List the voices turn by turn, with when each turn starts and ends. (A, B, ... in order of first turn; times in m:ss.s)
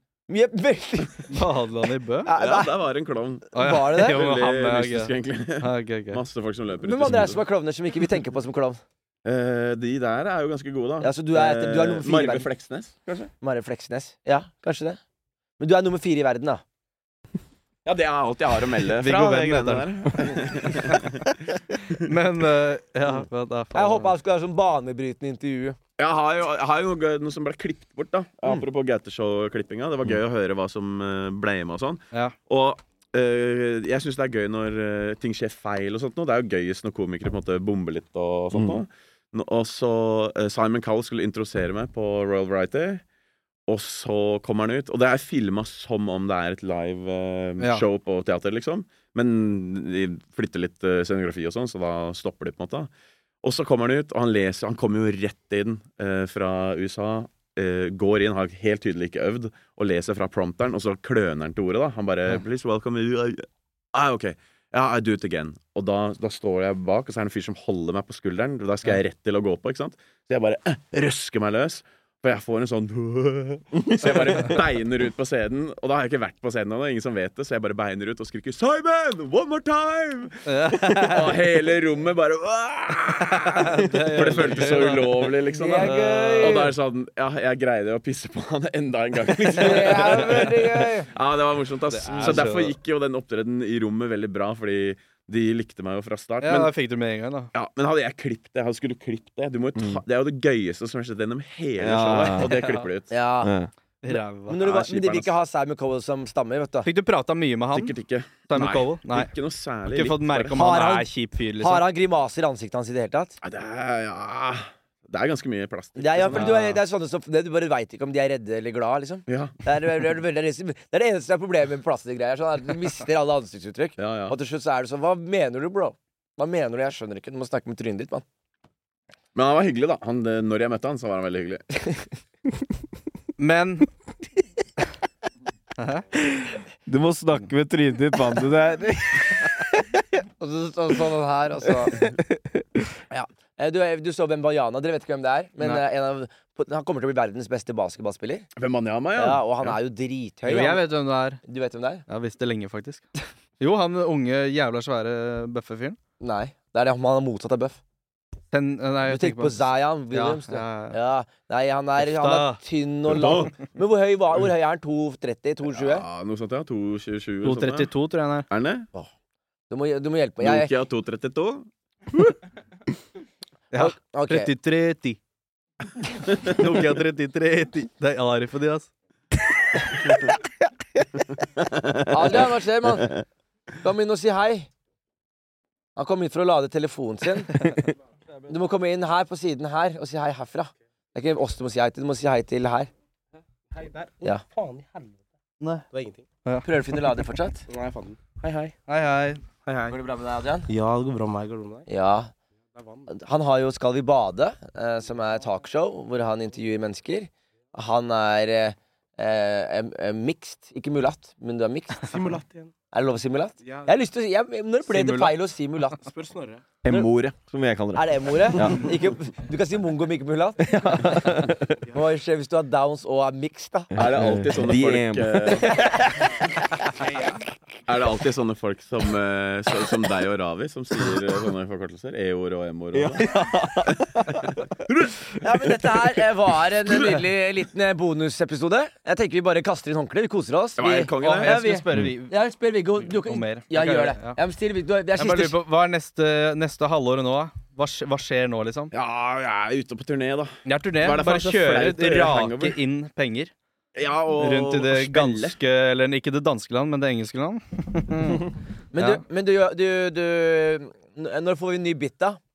0:00.3-0:01.4 A
0:01.3-0:02.3 B
0:02.2-0:02.7 A
0:02.4-0:07.4 C
0:03.5-0:04.2 A
0:03.5-0:06.2 B
0:06.8-0:08.8 A
0:09.2-0:13.3 C
0:11.0-0:12.5 A
0:13.4-0:15.0 A
0:15.6-0:16.6 A
0:17.8-0:22.0 C
0:19.0-0:20.3 B
0:22.0-0:24.1 B
0:23.7-0:25.8 A
0:26.0-0:43.0 C
0:38.5-0:38.8 D
0:43.7-0:52.9 C
0:47.6-0:47.8 B
0:53.4-1:36.7 C
1:20.4-1:21.4 B
1:23.4-1:26.6 B
1:25.5-1:26.7 A
1:29.4-1:31.1 A
1:31.9-1:32.8 B
1:36.4-1:37.5 B
1:37.5-1:43.1 C
1:41.8-1:42.5 D
1:42.4-1:42.9 B
1:43.1-1:43.5 A
1:43.4-1:43.7 D
1:44.0-1:44.6 B
1:44.1-1:46.9 A
1:44.5-1:45.3 C
1:46.8-1:49.3 B
1:47.7-1:50.6 C
1:49.9-1:51.8 B
1:50.5-1:51.1 A
1:51.6-1:53.4 A
1:53.4-1:56.8 C
1:56.0-2:08.2 A
1:56.3-1:56.7 B
1:59.3-1:59.6 C
2:04.0-2:04.3 C
2:09.3-2:11.8 C
2:13.4-2:13.9 B
2:15.8-2:16.0 B
2:16.8-2:19.8 D
2:20.4-2:22.0 A
2:23.1-2:28.5 A
2:28.6-2:29.8 C
2:29.2-2:30.8 A
2:30.5-2:31.4 B
2:31.4-2:32.0 A
2:32.1-2:33.0 B
2:33.6-2:36.0 B
2:36.2-2:37.8 A
2:38.5-2:41.0 B
2:39.0-2:46.0 A
2:42.0-2:42.6 B
2:43.1-2:43.5 C
2:45.7-2:47.9 C
2:47.4-2:48.5 B
2:48.5-2:48.9 C
2:49.7-2:50.7 A
2:50.4-2:51.7 C
2:53.7-2:54.5 A
2:53.7-2:55.2 B
2:56.4-2:58.9 B
3:01.6-3:03.2 C
3:02.1-3:03.1 A
3:03.8-3:04.7 A
3:06.0-3:07.7 A
3:08.5-3:12.9 A
3:13.7-3:15.2 E
3:15.9-3:16.2 E
3:16.6-3:17.6 A
3:17.7-3:18.7 E
3:18.9-3:19.4 B
3:19.6-3:20.0 E
3:19.9-3:20.7 A
3:20.7-3:21.8 E
3:21.9-3:22.3 A
3:22.8-3:23.0 E
3:23.1-3:32.1 A
3:32.0-3:32.7 E
3:32.9-3:36.0 A
3:34.9-3:35.4 B
3:36.1-3:36.6 E
3:36.8-3:38.8 D
3:37.9-3:41.4 A
3:40.6-3:41.6 D
3:41.9-3:43.9 A
3:43.9-3:46.2 D
3:43.9-3:45.7 C
3:47.8-3:55.3 C
3:52.9-3:54.6 D
3:55.4-4:05.6 A
4:00.8-4:01.6 C
4:01.2-4:02.3 B
4:01.9-4:02.2 D
4:03.0-4:04.4 B
4:05.1-4:08.9 B
4:08.9-4:12.8 C
4:10.6-4:13.5 B
4:13.9-4:15.6 C
4:14.4-4:19.2 B
4:18.9-4:22.4 A